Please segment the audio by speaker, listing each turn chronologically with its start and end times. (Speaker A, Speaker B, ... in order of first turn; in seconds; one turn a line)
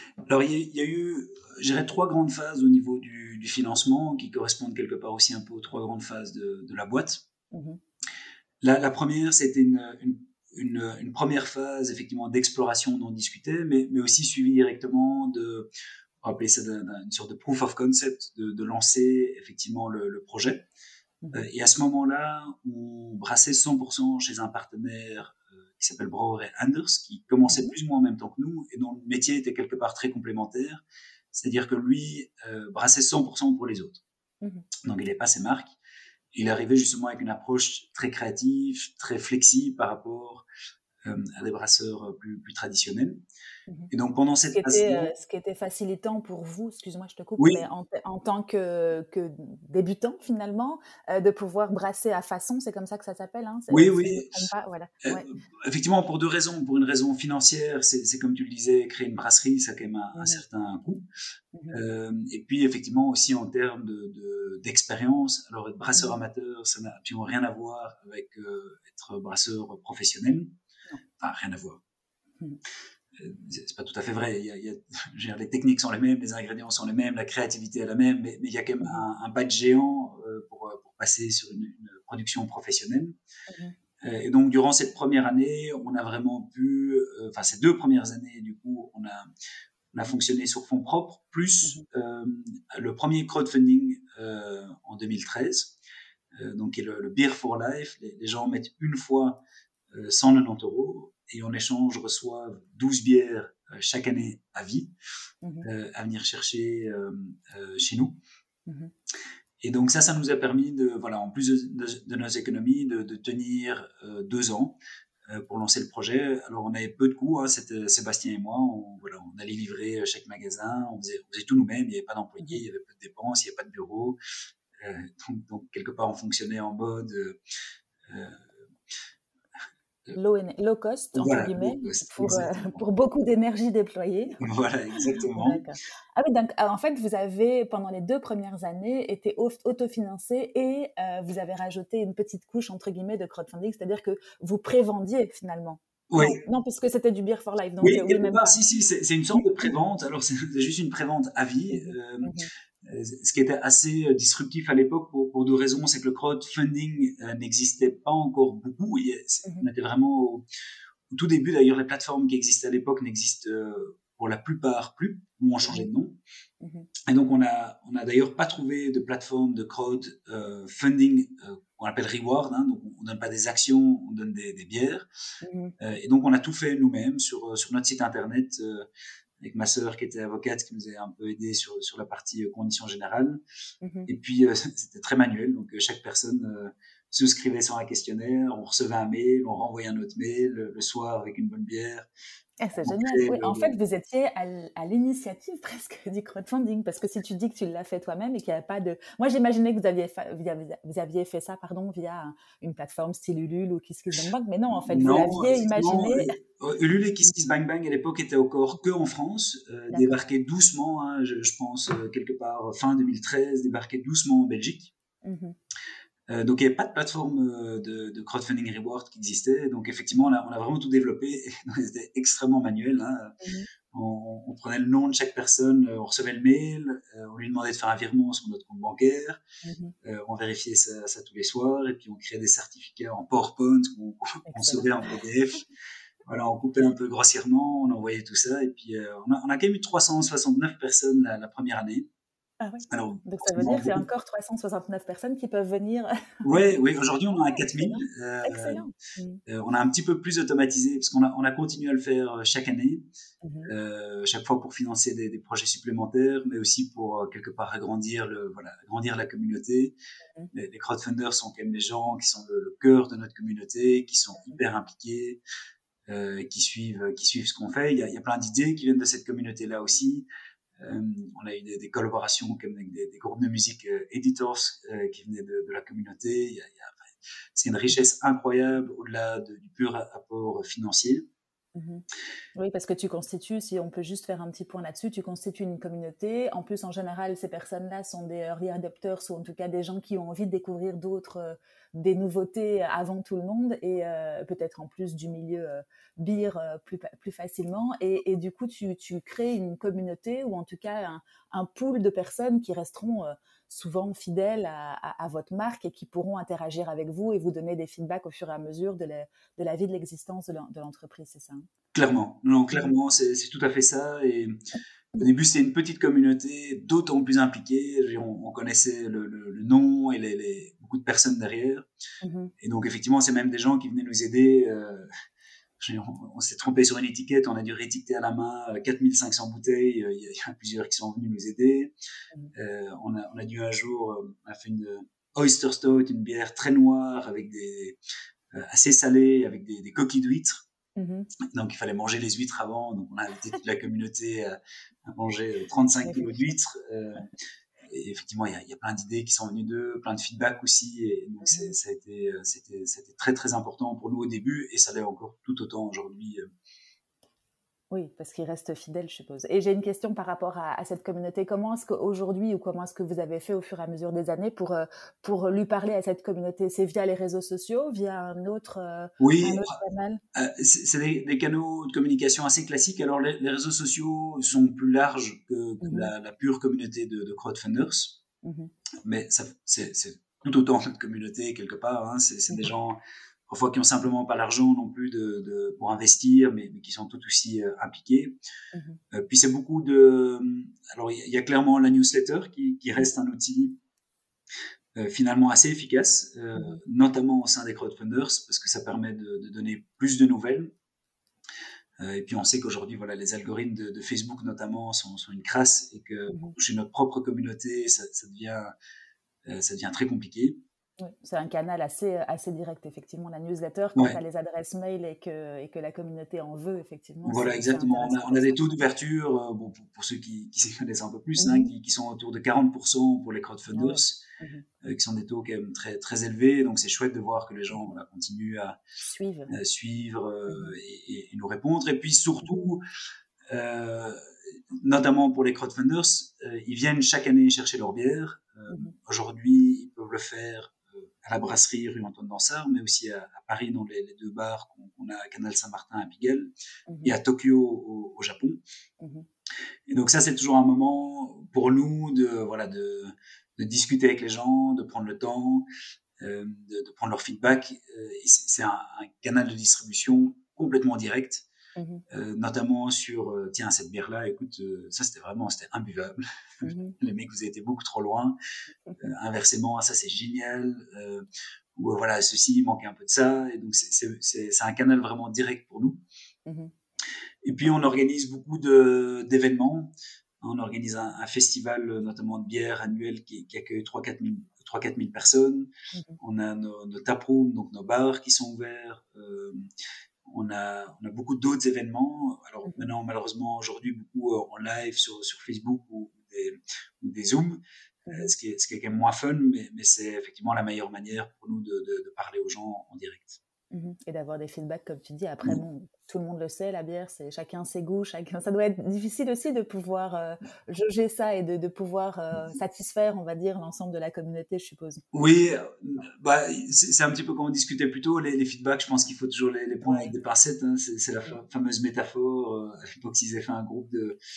Speaker A: 0.3-7.2
Speaker B: 7.5-7.8
Speaker A: 8.6-15.7
Speaker A: 16.2-20.6
Speaker A: 21.3-30.8
Speaker B: 27.5-27.8
Speaker A: 31.3-34.0
Speaker B: 34.4-34.7
Speaker A: 34.8-35.8
Speaker A: 36.3-40.5
Speaker A: 41.0-43.2
Speaker A: 43.9-45.1
Speaker B: 44.5-55.3
Speaker A: 47.4-47.6
Speaker A: 53.7-54.5
Speaker A: 55.0-61.0
Speaker B: 60.2-60.4
Speaker B: 61.6-61.8
Speaker A: 61.7-70.5
Speaker A: 71.2-71.8
Speaker A: 73.2-83.1
Speaker B: 83.5-83.8
Speaker A: 84.0-89.3
Speaker A: 89.9-95.8
Speaker A: 96.3-104.9
Speaker B: 105.4-105.7
Speaker A: 105.6-108.2
Speaker B: 108.7-108.9
Speaker A: 109.6-124.2
Speaker A: 124.8-127.4
Speaker A: 128.1-128.5
Speaker B: 130.1-134.4
Speaker A: 131.2-132.8
Speaker A: 134.4-135.6
Speaker B: 135.1-148.6
Speaker A: 146.1-146.4
Speaker A: 147.8-160.4
Speaker B: 151.7-152.5
Speaker A: 161.1-166.2
Speaker B: 166.6-166.9
Speaker A: 167.1-175.1
Speaker B: 175.4-175.8
Speaker A: 175.8-178.9
Speaker A: 179.4-183.4
Speaker B: 183.8-184.1
Speaker A: 184.1-192.1
Speaker B: 192.6-206.4
Speaker A: 192.8-193.7
Speaker A: 204.8-214.9
Speaker B: 209.9-210.2
Speaker B: 215.2-215.6
Speaker A: 216.3-223.4
Speaker B: 223.4-223.7
Speaker A: 223.9-229.4
Speaker B: 229.6-229.9
Speaker A: 230.0-235.7
Speaker B: 234.5-235.1
Speaker A: 236.3-242.1
Speaker B: 242.6-246.1
Speaker A: 242.9-244.0
Speaker A: 246.4-248.8
Speaker B: 247.3-249.4
Speaker A: 249.5-253.0
Speaker B: 253.4-253.7
Speaker A: 253.7-260.0
Speaker A: 260.5-265.4
Speaker A: 266.1-270.3
Speaker A: 270.8-277.0
Speaker A: 277.6-281.2
Speaker B: 281.8-282.1
Speaker B: 282.6-311.6
Speaker A: 311.9-314.6
Speaker A: 315.2-321.9
Speaker B: 322.2-322.5
Speaker A: 322.6-325.1
Speaker A: 325.8-331.9
Speaker A: 332.5-338.0
Speaker A: 338.5-340.7
Speaker B: 341.0-341.3
Speaker A: 341.5-347.3
Speaker B: 346.1-346.5
Speaker A: 347.9-356.4
Speaker B: 351.4-351.7
Speaker B: 357.9-370.2
Speaker A: 369.2-369.7
Speaker A: 370.4-378.2
Speaker B: 375.8-376.1
Speaker B: 378.4-378.7
Speaker A: 379.0-388.4
Speaker B: 388.7-389.0
Speaker A: 389.1-393.8
Speaker A: 395.0-400.7
Speaker A: 402.0-408.7
Speaker A: 409.5-410.6
Speaker B: 411.0-418.8
Speaker A: 417.2-424.2
Speaker B: 421.4-421.7
Speaker B: 423.7-424.6
Speaker A: 424.8-428.8
Speaker B: 429.0-429.6
Speaker A: 429.5-432.8
Speaker B: 430.5-430.7
Speaker B: 432.4-432.7
Speaker A: 433.5-434.2
Speaker A: 434.8-446.5
Speaker B: 446.9-447.2
Speaker A: 447.0-448.6
Speaker B: 449.0-449.3
Speaker A: 449.9-455.7
Speaker A: 456.2-461.5
Speaker B: 461.8-462.0
Speaker A: 462.1-468.4
Speaker B: 466.6-467.0
Speaker A: 469.0-476.0
Speaker B: 476.5-476.7
Speaker A: 477.4-489.7
Speaker A: 490.3-497.6
Speaker A: 498.1-503.4
Speaker B: 503.7-515.0
Speaker A: 515.1-524.2
Speaker B: 519.8-520.1